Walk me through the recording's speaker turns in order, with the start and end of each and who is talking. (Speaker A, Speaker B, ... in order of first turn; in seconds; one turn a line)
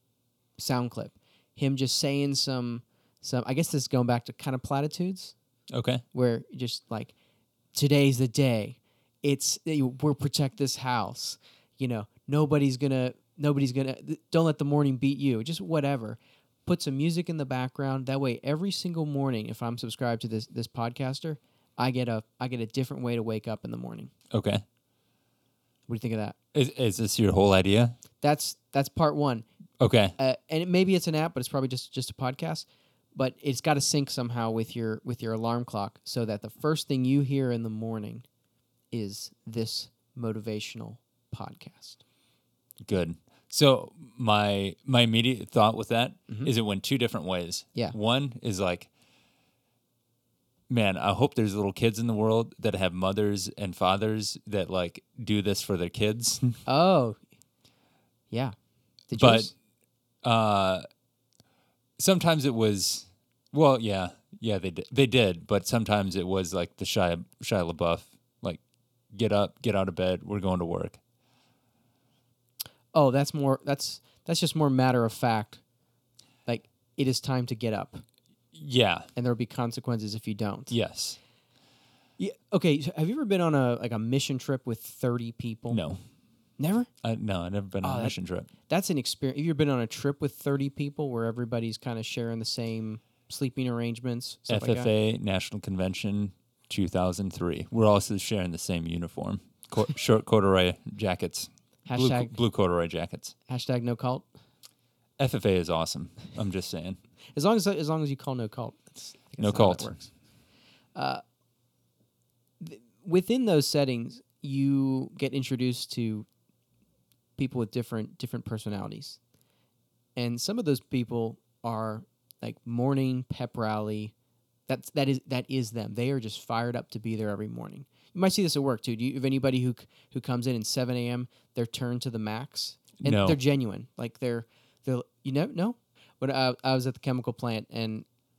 Speaker A: 0.6-5.3
Speaker B: 5.7-6.0
Speaker A: 6.1-7.1
Speaker A: 7.7-24.1
Speaker B: 24.3-24.6
Speaker A: 25.9-26.4
Speaker B: 26.5-28.0
Speaker A: 28.2-29.5
Speaker B: 29.8-30.2
Speaker A: 30.2-38.3
Speaker A: 38.9-42.0
Speaker B: 42.8-48.9
Speaker B: 50.7-56.6
Speaker A: 56.7-57.2
Speaker A: 58.3-58.6
Speaker A: 59.1-59.5
Speaker B: 59.1-59.5
Speaker B: 60.2-60.9
Speaker B: 62.0-68.6
Speaker B: 69.1-71.0
Speaker A: 72.9-75.6
Speaker A: 76.5-78.0
Speaker B: 78.5-79.1
Speaker A: 79.2-80.8
Speaker B: 80.7-81.2
Speaker A: 82.2-85.8
Speaker B: 85.7-86.0
Speaker A: 86.6-86.9
Speaker B: 87.0-88.5
Speaker A: 87.8-94.9
Speaker B: 94.5-103.3
Speaker A: 101.9-102.3
Speaker A: 103.5-104.3
Speaker B: 105.2-107.0
Speaker A: 107.3-110.1
Speaker B: 109.4-110.0
Speaker A: 111.0-111.2
Speaker A: 112.6-116.3
Speaker A: 117.4-119.2
Speaker A: 120.2-124.1
Speaker A: 124.7-138.1
Speaker B: 133.0-133.4